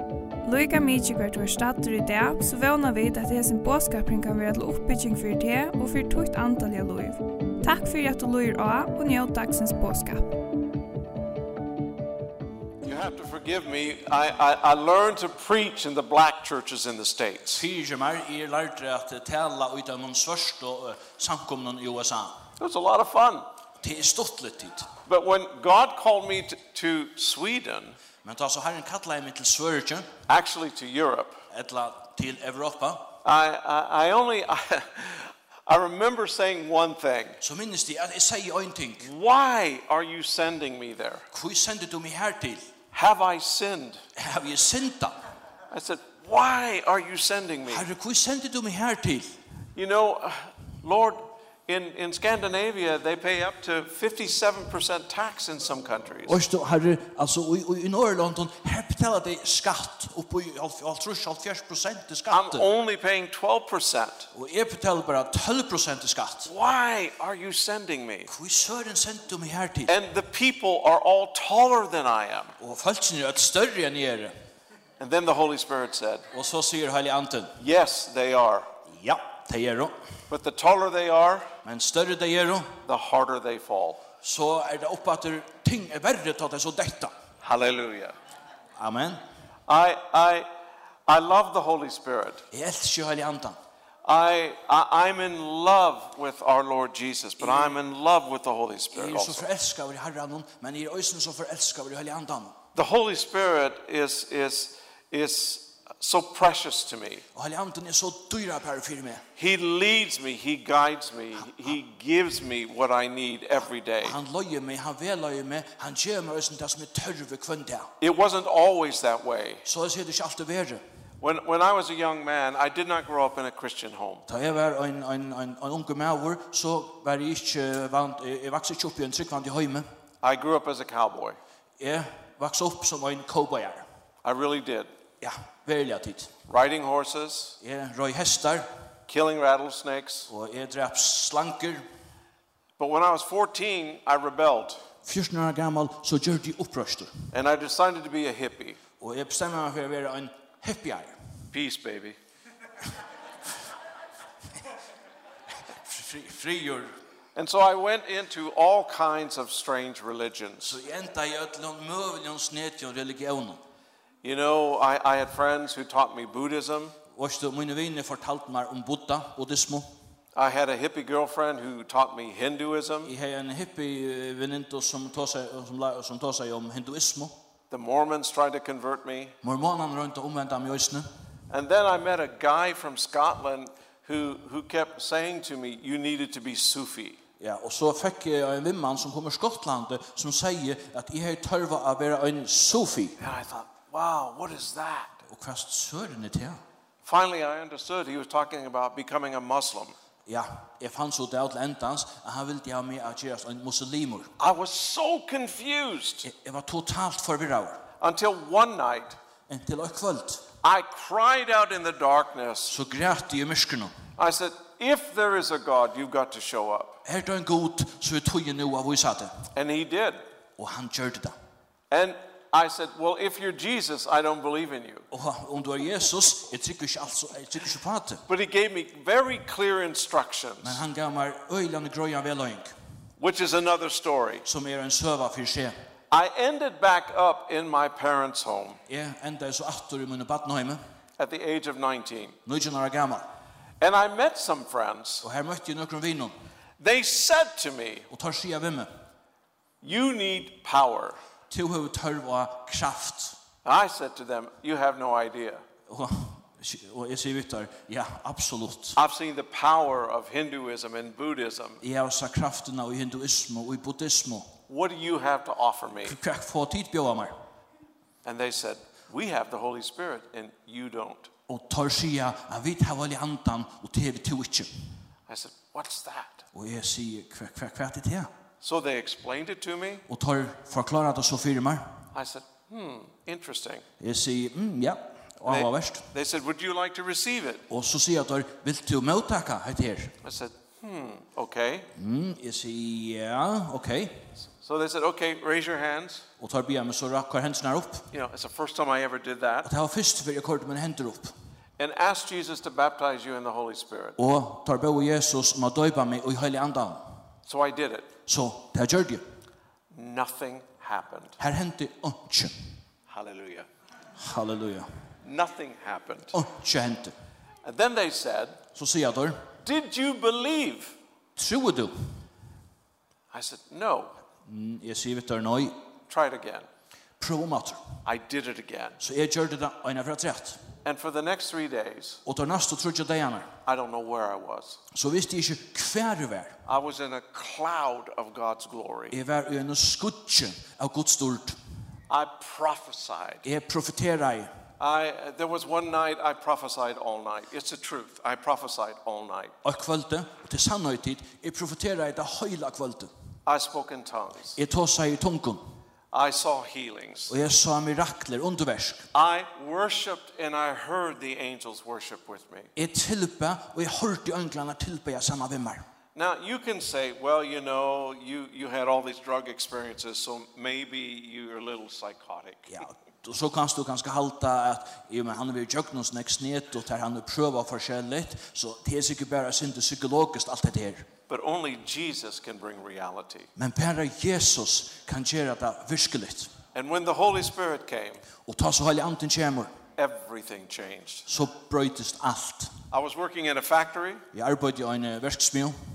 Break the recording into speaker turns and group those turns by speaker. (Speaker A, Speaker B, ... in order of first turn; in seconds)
Speaker A: 0.4-10.4
Speaker B: 12.8-17.6, 22.6-23.5, 25.1-27.9, 30.3-31.4, 33.2-37.4, 39.0-41.2, 42.9-44.0, 45.7-47.9, 49.8-56.4, 62.3-64.3, 66.5-68.3, 69.9-72.5, 75.0-76.3, 77.6-78.7, 80.3-81.5, 82.8-84.0, 87.4-88.1, 89.7-90.5, 91.1-92.4, 94.0-99.5, 102.7-107.2, 109.3-114.2, 118.0-119.6, 121.2-124.2, 130.2-131.4, 134.2-134.9, 136.5-137.6, 139.1-140.3, 142.8-144.8, 147.3-148.8, 151.5-152.2, 157.3-160.8, 164.2-166.9, 170.3-173.1, 177.7-179.3, 181.5-187.2, 193.2-195.2, 197.0-199.9, 204.4-206.3, 208.0-209.2, 210.6-212.7, 214.2-217.0, 219.5-220.2, 221.9-225.1, 228.3-230.8, 233.2-234.4, 236.1-238.8, 241.2-242.4, 243.8-245.2, 246.8-248.1, 249.8-251.2, 253.6-255.6, 258.9-261.8, 264.7-266.2, 268.2-271.3, 275.3-276.4, 278.6-280.0, 282.1-283.8, 285.4-287.6, 290.2-291.9, 294.6-296.2, 298.1-299.7, 301.8-304.2, 307.4-308.1, 309.9-311.4, 313.1-313.7, 315.2-316.4, 317.6-318.6, 319.6-320.9, 323.3-324.2, 326.1-326.7, 328.0-329.0, 330.8-332.2, 333.6-334.8, 336.6-339.1, 342.1-343.4, 344.8-349.5, 353.4-354.6, 356.1-357.3, 359.1-362.7, 366.1-372.8, 381.3-383.5, 386.7-388.2, 390.0-391.2, 392.9-394.2
Speaker C: 17.5-22.4, 23.8-24.9, 28.2-30.1, 31.5-33.1, 37.4-39.1, 41.3-42.7, 44.1-45.1, 47.7-49.3, 56.2-62.7, 64.3-66.5, 68.3-69.9, 72.6-74.3, 76.3-77.5, 78.9-80.0, 81.6-82.8, 84.2-87.1, 88.8-89.2, 92.5-93.6, 98.9-102.5, 107.3-109.2, 114.0-117.9, 119.6-120.8, 124.3-129.8, 131.8-133.8, 135.2-136.3, 137.6-138.7, 140.3-141.8, 145.0-147.1, 149.0-151.1, 155.8-156.9, 160.6-163.6, 167.1-169.9, 173.0-177.3, 179.4-181.1, 187.4-193.2, 195.3-196.6, 200.3-204.3, 206.2-207.8, 209.5-210.4, 212.7-213.9, 217.0-219.4, 220.6-221.3, 225.1-228.2, 230.6-232.7, 234.4-235.7, 238.9-240.8, 242.4-243.2, 245.2-246.3, 248.1-248.9, 251.5-253.4, 255.9-259.0, 261.8-264.5, 266.0-267.4, 271.5-274.7, 276.5-278.3, 280.1-282.0, 284.0-286.1, 287.7-290.2, 291.9-294.3, 296.4-298.1, 299.6-301.3, 304.2-307.0, 308.3-309.2, 311.4-312.5, 314.2-314.9, 316.3-317.1, 318.7-319.4, 321.4-321.9, 324.4-325.8, 327.2-327.8, 329.0-330.6, 332.2-333.5, 334.9-336.6, 339.1-341.6, 343.4-344.5, 349.6-353.1, 354.6-355.6, 357.3-359.1, 362.8-365.8, 372.7-381.1, 383.6-386.5, 388.4-389.7, 391.2-392.7, 394.3-395.8